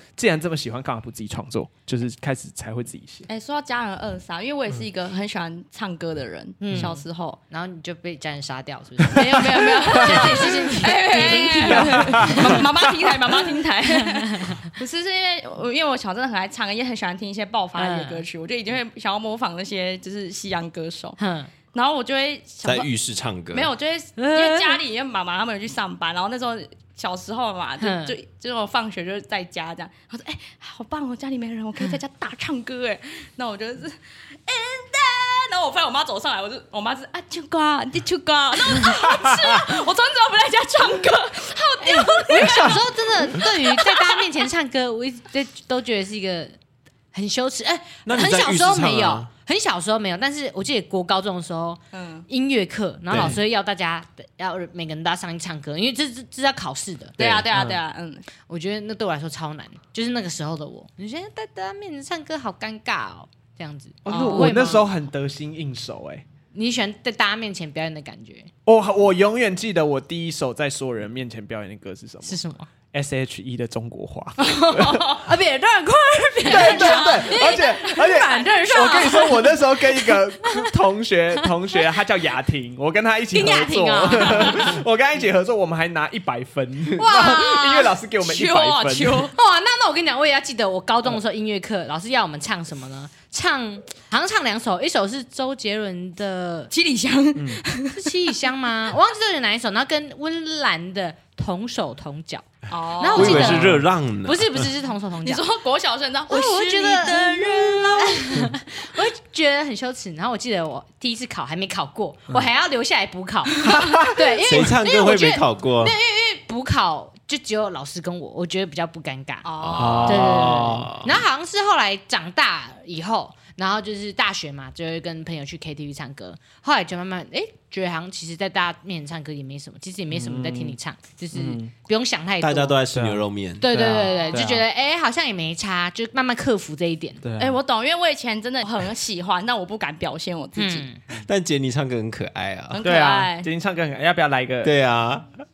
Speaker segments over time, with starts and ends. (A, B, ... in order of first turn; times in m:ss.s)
0:00.2-0:03.3 A
0:03.3-0:07.4 B
0:06.6-0:12.7 C
0:09.1-0:21.2 B
0:09.9-0:10.7 A
0:11.7-0:12.7 A
0:14.0-0:14.6 C
0:17.8-0:18.2 C
0:21.2-0:21.5 C
0:21.7-0:22.9 B
0:22.6-0:23.7 D
0:23.5-0:44.4 B
0:24.2-0:24.8 C
0:27.8-0:28.1 C
0:41.8-0:46.5 C
0:47.1-0:57.2 C
0:48.0-0:49.3 D
0:51.9-0:52.3 B
0:53.1-0:53.4 D
0:57.2-0:57.5 D
0:57.2-0:58.2 B
0:57.5-0:57.8 A
0:58.5-1:04.9 C
1:04.0-1:06.2 A
1:04.1-1:04.6 B
1:06.5-1:08.5 C
1:08.7-1:12.4 A
1:12.2-1:12.7 C
1:12.9-1:15.2 A
1:14.4-1:15.2 B
1:15.2-1:20.7 C
1:16.4-1:18.3 B
1:16.4-1:29.3 A
1:23.3-1:24.8 C
1:27.0-1:27.9 C
1:27.1-1:29.3 B
1:29.3-1:36.7 C
1:36.7-1:38.1 B
1:37.4-1:37.6 A
1:37.9-1:45.4 C
1:42.7-1:43.7 B
1:43.1-1:44.7 D
1:43.2-1:43.8 A
1:45.2-1:48.5 B
1:46.3-1:59.5 C
1:53.7-1:54.2 A
1:54.4-1:56.0 D
1:59.4-2:00.2 B
1:59.6-2:01.2 D
1:59.8-2:00.9 A
2:00.0-2:12.8 C
2:10.1-2:10.8 A
2:11.3-2:11.7 A
2:12.4-2:13.8 D
2:12.9-2:14.6 A
2:13.6-2:17.2 C
2:17.2-2:17.6 A
2:17.4-2:20.9 B
2:20.6-2:21.0 C
2:21.1-2:22.8 D
2:22.7-2:23.5 B
2:22.8-2:24.7 A
2:24.6-2:25.3 D